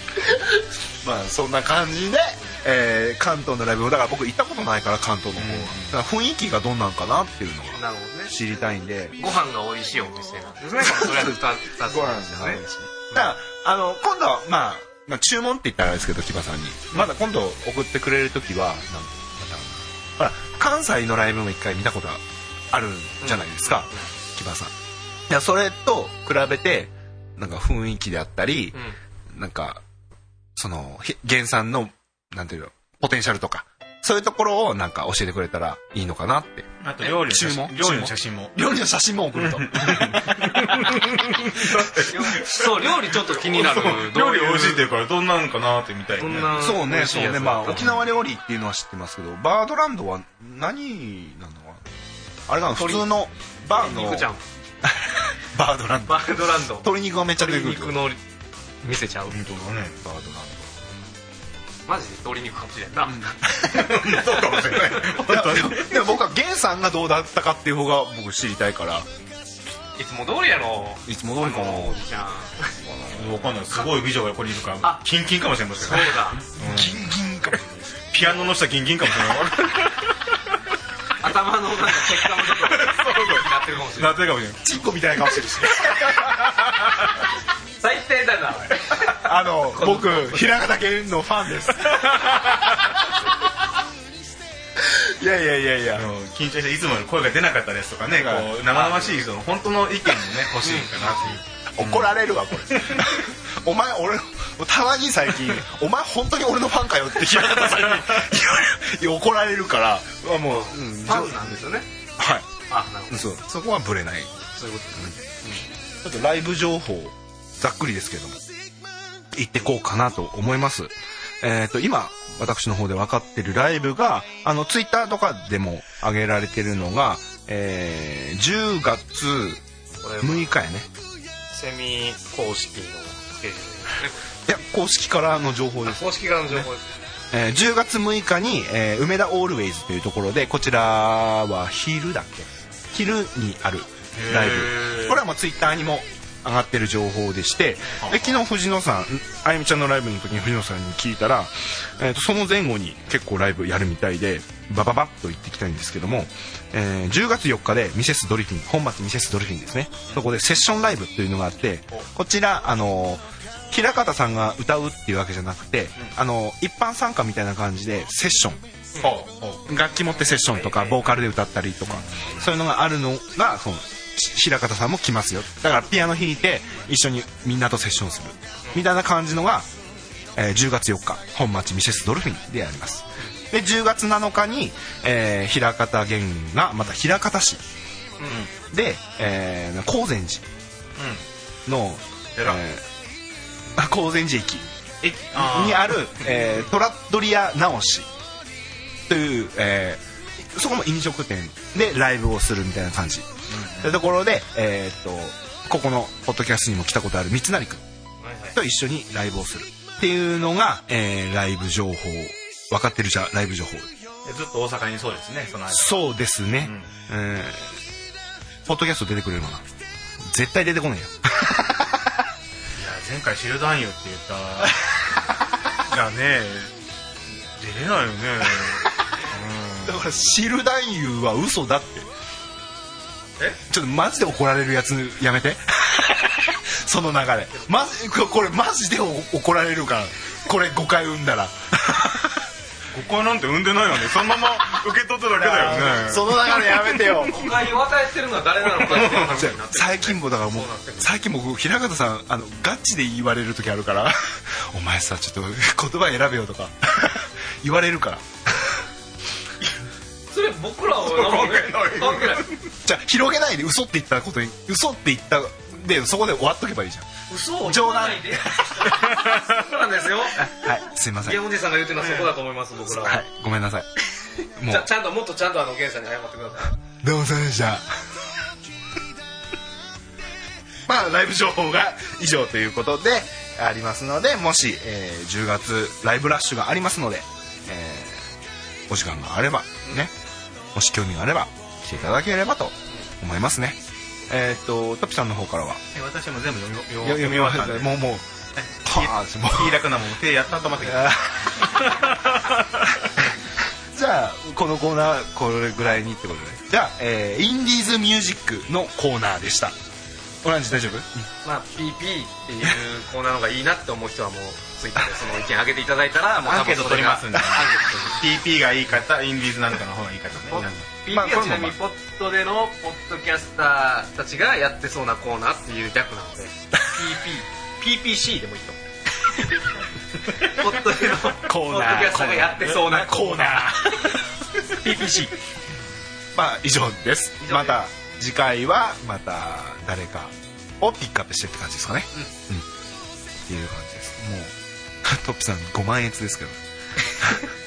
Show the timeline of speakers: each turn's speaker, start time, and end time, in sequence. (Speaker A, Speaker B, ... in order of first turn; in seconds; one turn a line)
Speaker A: 1.0-9.2
Speaker B: 5.4-6.0
Speaker C: 7.7-8.3
Speaker C: 9.2-13.3
Speaker A: 10.8-24.7
Speaker C: 23.2-24.1
Speaker A: 25.3-28.8
Speaker A: 29.3-29.8
Speaker A: 30.6-41.6
Speaker B: 36.8-38.5
Speaker B: 39.3-46.6
Speaker C: 42.0-44.8
Speaker C: 46.2-47.9
Speaker A: 46.5-51.8
Speaker B: 47.7-48.0
Speaker A: 52.5-54.3
Speaker C: 52.7-53.1
Speaker C: 53.7-54.4
Speaker A: 54.8-58.0
Speaker C: 56.0-58.2
Speaker C: 58.8-59.4
Speaker B: 59.3-60.0
Speaker A: 60.0-60.8
Speaker C: 61.9-63.4
Speaker B: 63.4-66.0
Speaker A: 65.0-69.1
Speaker C: 70.0-72.7
Speaker A: 71.0-72.0
Speaker B: 73.0-77.0
Speaker C: 75.8-76.4
Speaker A: 76.5-78.4
Speaker B: 78.1-80.1
Speaker C: 81.2-84.2
Speaker B: 82.5-84.6
Speaker A: 84.6-86.2
Speaker B: 86.1-86.4
Speaker C: 87.8-89.2
Speaker A: 89.1-92.8
Speaker C: 89.7-90.5
Speaker B: 92.0-92.4
Speaker A: 94.8-96.1
Speaker B: 95.9-102.1
Speaker A: 98.1-98.5
Speaker C: 98.7-99.2
Speaker C: 100.6-101.3
Speaker A: 101.7-112.5
Speaker B: 102.7-103.1
Speaker C: 110.5-111.9
Speaker C: 112.7-113.2
Speaker A: 113.1-114.3
Speaker C: 114.5-115.6
Speaker A: 116.0-118.4
Speaker A: 119.3-129.6
Speaker C: 130.0-130.5
Speaker A: 130.2-130.9
Speaker C: 131.5-134.2
Speaker A: 134.5-136.7
Speaker C: 135.8-136.9
Speaker A: 137.3-168.6
Speaker B: 144.1-145.2
Speaker B: 148.0-148.3
Speaker B: 169.0-169.6
Speaker A: 169.7-179.7
Speaker C: 170.4-171.1
Speaker B: 171.9-172.4
Speaker A: 180.3-187.6
Speaker C: 188.2-188.4
Speaker B: 188.2-188.5
Speaker A: 188.7-190.4
Speaker B: 190.9-191.2
Speaker A: 191.7-192.8
Speaker B: 192.3-192.6
Speaker A: 193.7-194.7
Speaker B: 195.0-196.4
Speaker A: 195.3-198.1
Speaker A: 199.1-203.3
Speaker B: 203.5-204.0
Speaker A: 203.8-207.8
Speaker C: 208.2-208.6
Speaker A: 208.5-213.9
Speaker B: 214.2-215.9
Speaker A: 215.7-217.8
Speaker B: 216.6-216.9
Speaker A: 218.7-219.7
Speaker A: 220.2-222.1
Speaker B: 222.8-224.8
Speaker B: 225.8-226.7
Speaker B: 227.6-230.1
Speaker A: 229.8-232.1
Speaker A: 233.7-242.4
Speaker B: 242.9-246.8
Speaker A: 245.4-247.5
Speaker C: 247.2-251.1
Speaker B: 248.8-249.4
Speaker A: 249.1-258.8
Speaker C: 260.3-262.5
Speaker B: 261.0-262.6
Speaker A: 262.8-268.8
Speaker C: 267.3-270.5
Speaker A: 270.3-271.4
Speaker C: 271.2-273.2
Speaker A: 272.9-273.9
Speaker A: 274.6-274.9
Speaker C: 274.6-276.8
Speaker A: 277.0-277.9
Speaker A: 280.9-288.3
Speaker A: 288.9-290.1
Speaker A: 290.7-295.8
Speaker B: 295.9-297.9
Speaker A: 297.0-298.2
Speaker B: 298.6-302.9
Speaker A: 298.8-299.9
Speaker A: 300.8-301.9
Speaker A: 303.9-309.8
Speaker A: 310.4-311.3
Speaker C: 311.4-318.2
Speaker B: 316.4-320.8
Speaker C: 320.5-328.8
Speaker A: 321.1-321.8
Speaker C: 330.4-334.2
Speaker A: 331.3-334.7
Speaker C: 334.8-335.4
Speaker A: 336.3-342.7
Speaker C: 337.4-337.8
Speaker A: 343.4-346.6